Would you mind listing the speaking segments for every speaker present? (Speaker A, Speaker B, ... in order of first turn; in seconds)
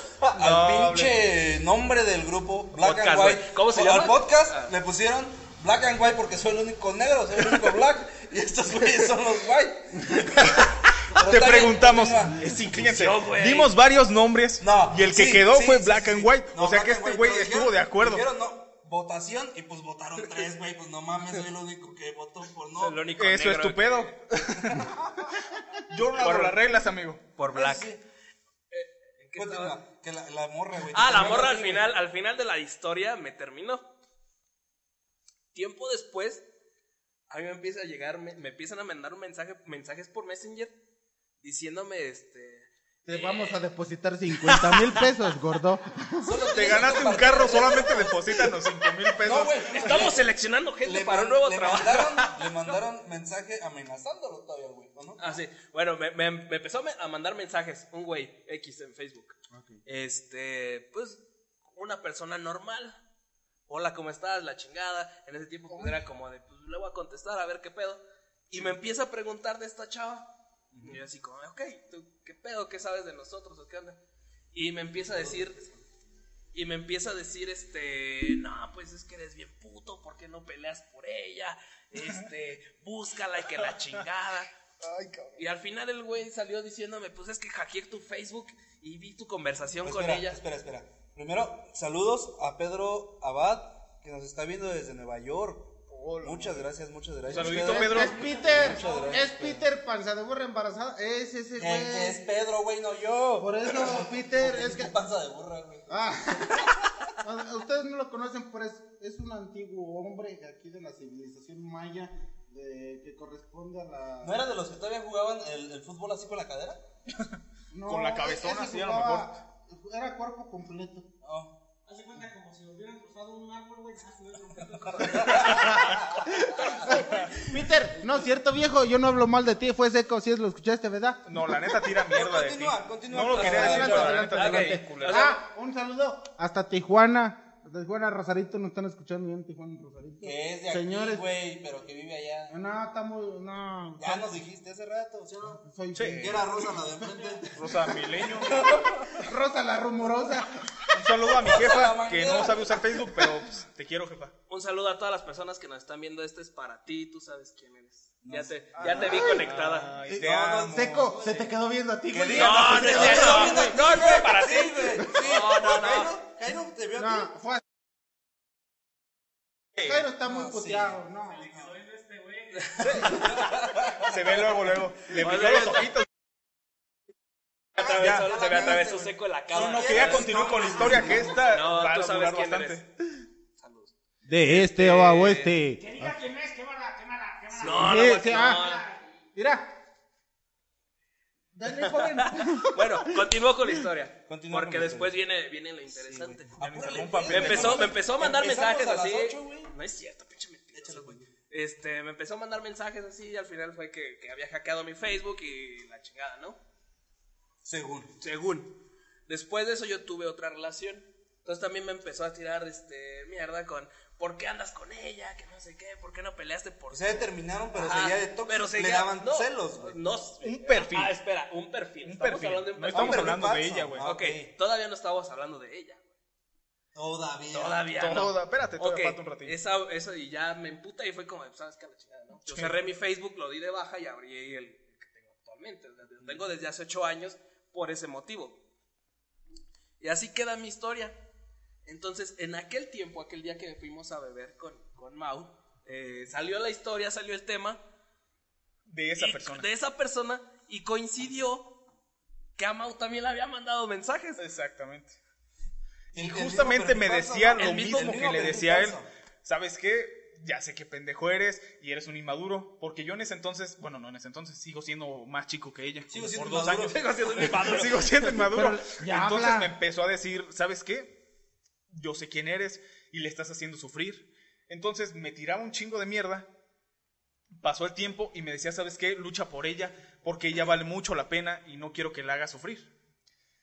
Speaker A: 0.2-10.5, 11.1-12.5, 14.6-23.1, 24.7-25.0, 27.5-28.0, 29.4-31.9, 46.2-48.5, 49.2-50.2, 50.8-55.4, 70.7-71.0, 74.9-75.8, 89.8-99.7, 101.6-107.1, 114.2-116.8, 121.2-121.5, 124.9-125.9, 132.1-134.3, 140.2-142.6, 144.0-149.3, 151.4-152.9, 158.2-159.4, 160.2-161.2, 162.1-167.3, 170.2-171.0, 172.8-174.4, 177.8-181.4, 194.3-195.2, 195.9-199.7, 200.7-201.3, 207.6-208.1, 216.9-220.0, 222.9-224.5, 226.9-228.1, 256.1-259.1, 266.1-267.8
Speaker B: 0.3-1.2, 11.2-18.2, 23.2-24.9, 25.9-27.2, 46.5-50.1, 84.8-85.4, 95.9-96.7, 97.3-98.2, 117.9-119.3, 131.3-135.3, 145.9-146.4, 147.5-148.6, 150.9-154.3, 158.8-161.1, 174.1-176.1, 177.8-178.7, 179.5-182.9, 196.6-198.0, 220.4-221.2, 222.0-224.1, 228.0-229.6, 232.5-232.8, 248.9-249.7, 254.4-255.2, 256.1-271.1, 271.9-276.5, 277.6-282.9
Speaker C: 2.8-4.7, 12.4-13.7, 22.8-24.1, 26.2-26.6, 27.4-27.9, 28.7-29.8, 30.9-33.9, 35.5-36.5, 37.3-40.7, 41.4-43.6, 44.7-45.0, 49.7-52.4, 55.2-63.0, 63.7-70.3, 70.8-74.0, 74.5-75.6, 76.5-84.5, 85.4-90.4, 126.5-127.1, 133.7-135.4, 154.5-159.9, 162.3-166.1, 172.6-173.4, 175.2-175.9, 177.8-180.5, 181.3-182.8, 183.6-183.9, 184.4-185.6, 187.6-188.9, 191.8-196.6, 197.2-206.6, 208.2-208.7, 209.3-223.4, 224.0-226.1, 227.5-238.6, 240.0-241.2, 241.8-247.8, 249.2-251.7, 252.6-254.4, 257.6-258.2, 266.8-268.4
Speaker D: 43.1-46.4, 59.5-59.8, 65.7-66.0, 97.3-102.2, 103.4-104.9, 105.9-114.4, 117.7-121.1, 125.8-131.5, 133.3-141.2, 142.5-144.3, 145.6-146.4, 149.2-150.6, 160.1-163.8, 167.0-167.6, 169.8-171.5, 184.3-186.1, 187.6-188.8, 189.4-189.7, 191.6-193.3, 268.4-269.7
Speaker E: 98.6-99.1, 121.9-127.5, 171.3-173.4, 185.8-189.1